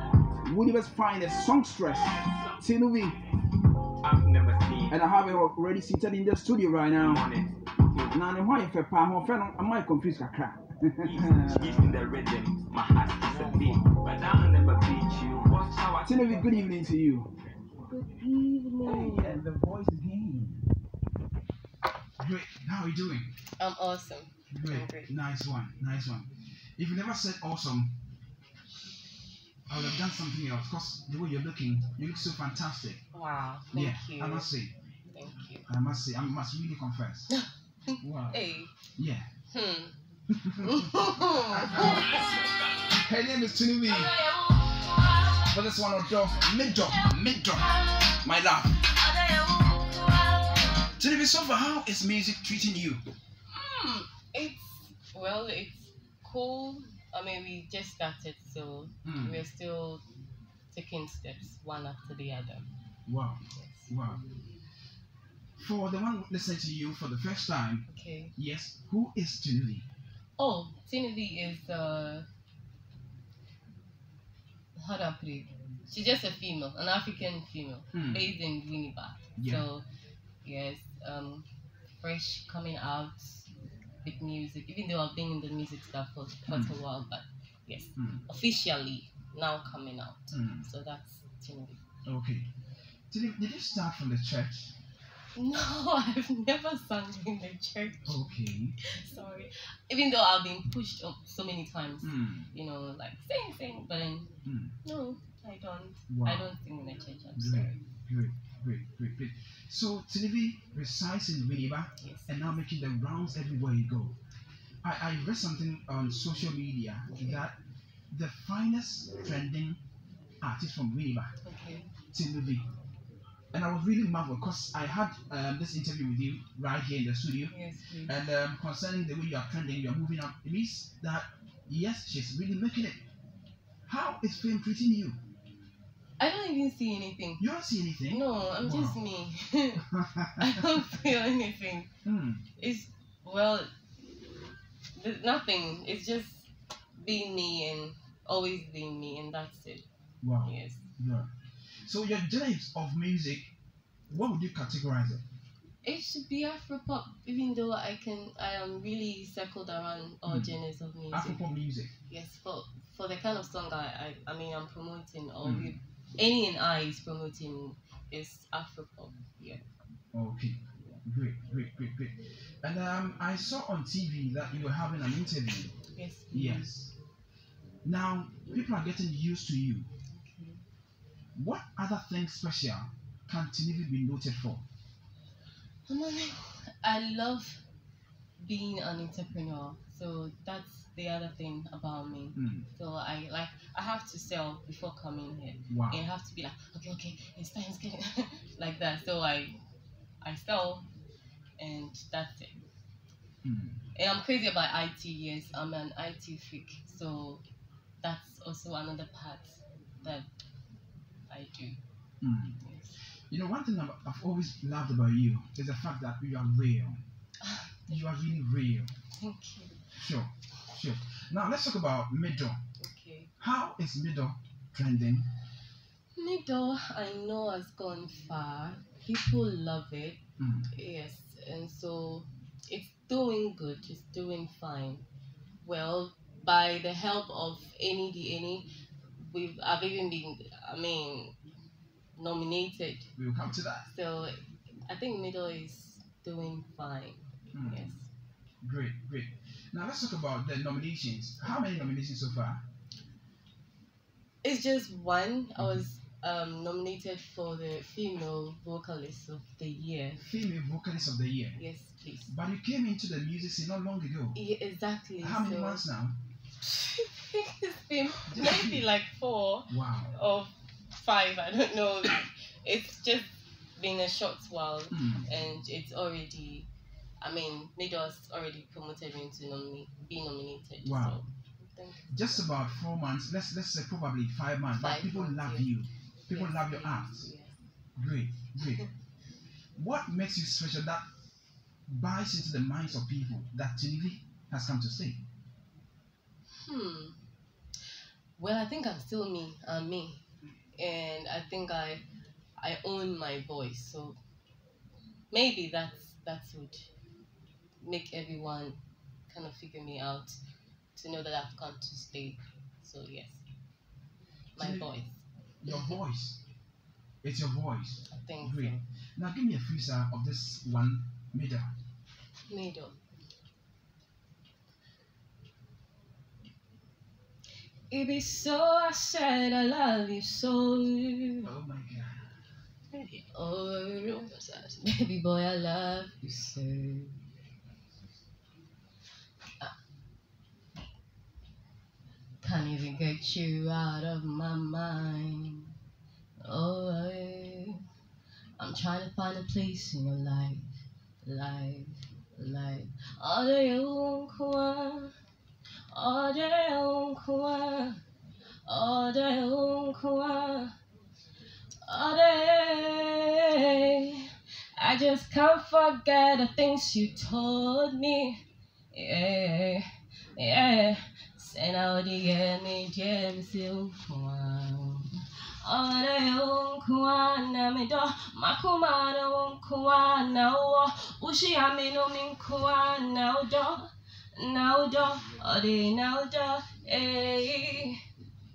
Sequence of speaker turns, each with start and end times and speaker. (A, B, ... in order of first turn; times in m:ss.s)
0:00.4-0:03.2 A
0:04.0-0:05.0 B
0:04.9-0:07.3 A
0:07.0-0:08.2 B
0:08.1-0:12.0 A
0:11.0-0:17.0 B
0:16.0-0:17.3 A
0:17.9-0:19.4 C
0:18.8-0:20.7 A
0:22.2-0:23.3 A
0:23.6-0:25.1 C
0:24.5-0:27.9 A
0:29.7-0:33.0 A
0:33.1-0:34.5 C
0:33.7-0:34.8 A
0:35.1-0:35.7 C
0:35.7-0:37.3 A
0:37.3-0:38.7 C
0:38.0-0:38.4 A
0:39.0-0:39.3 A
0:39.5-0:40.0 C
0:40.3-0:42.2 A
0:40.6-0:42.4 C
0:42.9-0:44.2 A
0:43.8-0:45.6 C
0:45.4-0:48.8 A
0:46.6-0:47.0 C
0:47.8-0:48.2 C
0:48.8-0:50.8 C
0:51.0-0:53.0 A
0:53.5-1:00.0 C
0:59.0-0:59.4 A
1:00.7-1:02.7 C
1:03.1-1:04.2 A
1:03.5-1:03.9 C
1:05.6-1:07.8 A
1:07.9-1:08.3 C
1:08.4-1:09.9 A
1:10.4-1:12.3 C
1:14.8-1:19.8 C
1:17.9-1:18.3 A
1:19.4-1:19.7 A
1:20.4-1:21.5 C
1:22.0-1:23.5 C
1:24.0-1:31.8 C
1:26.5-1:26.8 A
1:28.0-1:28.2 A
1:30.3-1:30.7 A
1:32.0-1:32.5 A
1:33.1-1:34.7 A
1:35.4-1:38.2 C
1:38.1-1:38.8 A
1:38.8-1:44.3 C
1:42.0-1:42.5 A
1:44.4-1:44.8 A
1:44.8-1:47.8 C
1:46.1-1:46.5 A
1:47.4-1:54.2 A
1:52.0-1:52.4 C
1:54.8-1:57.6 A
1:57.1-1:57.5 C
1:58.1-1:59.8 A
2:00.4-2:01.3 A
2:01.4-2:01.9 C
2:02.1-2:02.6 A
2:03.5-2:13.0 A
2:07.5-2:08.2 C
2:13.9-2:15.2 A
2:16.2-2:17.4 C
2:17.4-2:19.0 A
2:18.1-2:21.9 C
2:19.8-2:20.8 A
2:22.0-2:22.4 A
2:22.6-2:23.7 C
2:25.0-2:26.5 C
2:27.0-2:29.9 C
2:30.2-2:31.3 A
2:30.4-2:30.8 C
2:31.8-2:33.5 A
2:34.1-2:35.2 A
2:35.8-2:41.4 C
2:40.3-2:40.6 A
2:41.1-2:41.9 A
2:42.1-2:49.6 C
2:45.4-2:45.8 A
2:50.1-2:55.8 A
2:55.9-2:56.7 C
2:56.3-2:56.9 A
2:57.8-2:59.9 A
3:00.1-3:00.6 C
3:01.4-3:04.6 A
3:05.9-3:07.6 C
3:08.4-3:19.6 C
3:12.4-3:12.7 A
3:15.7-3:16.1 A
3:20.2-3:20.9 C
3:21.6-3:22.6 C
3:23.4-3:23.8 A
3:24.0-3:27.4 C
3:28.0-3:30.3 C
3:31.3-3:31.8 C
3:32.2-3:32.6 A
3:32.6-3:33.0 C
3:33.3-3:37.0 A
3:37.4-3:38.0 C
3:37.9-3:38.9 A
3:39.2-3:39.9 C
3:39.9-3:42.6 A
3:42.8-3:43.3 C
3:43.4-3:45.3 A
3:46.2-3:55.0 C
3:50.4-3:50.7 A
3:55.6-4:01.3 C
4:02.2-4:03.1 C
4:03.2-4:03.9 A
4:03.8-4:08.1 C
4:07.5-4:08.0 A
4:08.6-4:12.6 A
4:11.4-4:11.9 C
4:14.4-4:20.3 C
4:20.2-4:21.6 A
4:21.6-4:22.3 C
4:22.3-4:24.4 A
4:24.4-4:25.8 C
4:25.2-4:26.2 A
4:26.6-4:36.7 C
4:28.2-4:28.9 A
4:29.7-4:30.2 A
4:34.9-4:35.3 A
4:37.2-4:42.7 C
4:40.8-4:41.2 A
4:42.1-4:47.3 A
4:44.7-4:45.8 C
4:46.3-4:47.6 C
4:48.0-4:48.9 A
4:48.6-4:48.9 C
4:49.8-4:51.0 A
4:51.9-4:55.2 A
4:56.6-4:57.2 C
4:58.4-5:00.2 C
5:00.8-5:02.0 C
5:02.6-5:04.2 C
5:05.3-5:06.9 C
5:07.8-5:10.4 C
5:11.0-5:13.4 C
5:14.6-5:16.0 C
5:14.6-5:14.9 A
5:15.6-5:16.4 A
5:17.2-5:21.7 A
5:18.1-5:18.8 C
5:22.5-5:23.0 C
5:27.9-5:31.5 C
5:31.4-5:32.3 A
5:32.9-5:37.2 C
5:42.4-5:45.8 C
5:46.4-5:47.8 C
5:48.6-5:55.2 C
5:55.9-5:58.0 C
5:58.7-6:00.8 C
6:01.9-6:28.0 C